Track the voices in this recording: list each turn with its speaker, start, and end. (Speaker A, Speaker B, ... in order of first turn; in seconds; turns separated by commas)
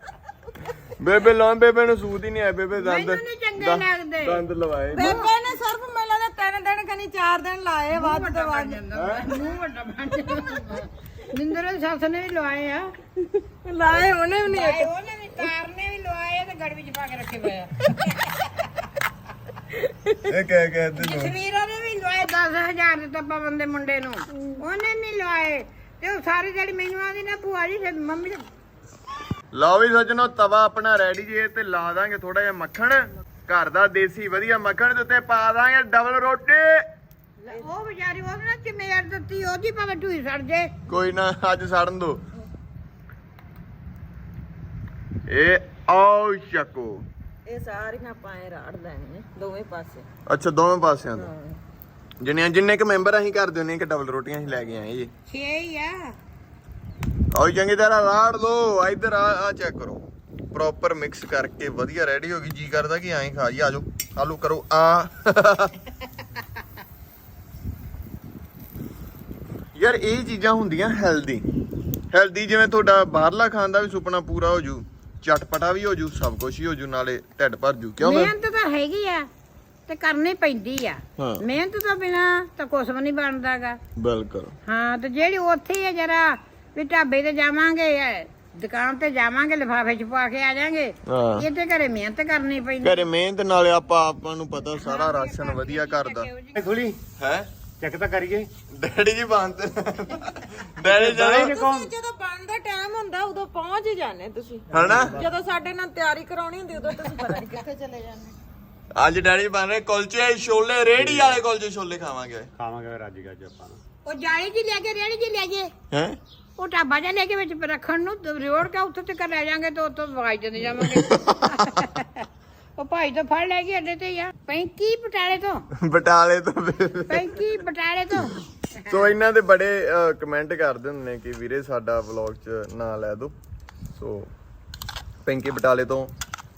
Speaker A: 1.0-5.3, Speaker B: 2.8-4.4, Speaker C: 4.9-8.8, Speaker B: 5.0-5.3, Speaker B: 7.9-12.9, Speaker A: 8.9-9.3, Speaker C: 13.6-14.9, Speaker B: 14.4-18.4, Speaker C: 19.7-20.2, Speaker A: 20.3-21.3, Speaker B: 21.0-28.4, Speaker A: 29.5-36.8, Speaker B: 37.5-40.7, Speaker A: 40.9-42.2, Speaker A: 45.3-47.0, Speaker C: 47.5-50.0, Speaker A: 50.3-51.3, Speaker C: 51.1-51.6, Speaker A: 52.2-55.1, Speaker B: 55.3-56.1, Speaker A: 57.3-65.7, Speaker A: 69.8-71.4, Speaker A: 72.1-78.3, Speaker B: 78.0-79.3, Speaker B: 79.9-83.8, Speaker A: 81.2-81.4, Speaker A: 84.0-84.5, Speaker B: 84.7-93.1, Speaker A: 91.0-91.5, Speaker A: 92.8-96.3, Speaker B: 94.7-96.6, Speaker D: 96.5-97.0, Speaker A: 97.2-97.5, Speaker D: 97.8-98.5, Speaker A: 98.7-101.5, Speaker D: 100.8-101.9, Speaker C: 101.3-108.3, Speaker A: 104.7-105.2, Speaker D: 104.7-105.3, Speaker A: 108.9-112.5, Speaker D: 111.0-111.4, Speaker D: 112.6-113.8, Speaker B: 114.0-115.7, Speaker A: 115.9-116.2, Speaker B: 116.6-122.2, Speaker A: 120.9-121.9, Speaker B: 122.8-125.6, Speaker A: 125.8-127.5, Speaker B: 127.1-129.0, Speaker A: 128.9-133.3, Speaker A: 133.9-134.3, Speaker A: 135.2-136.1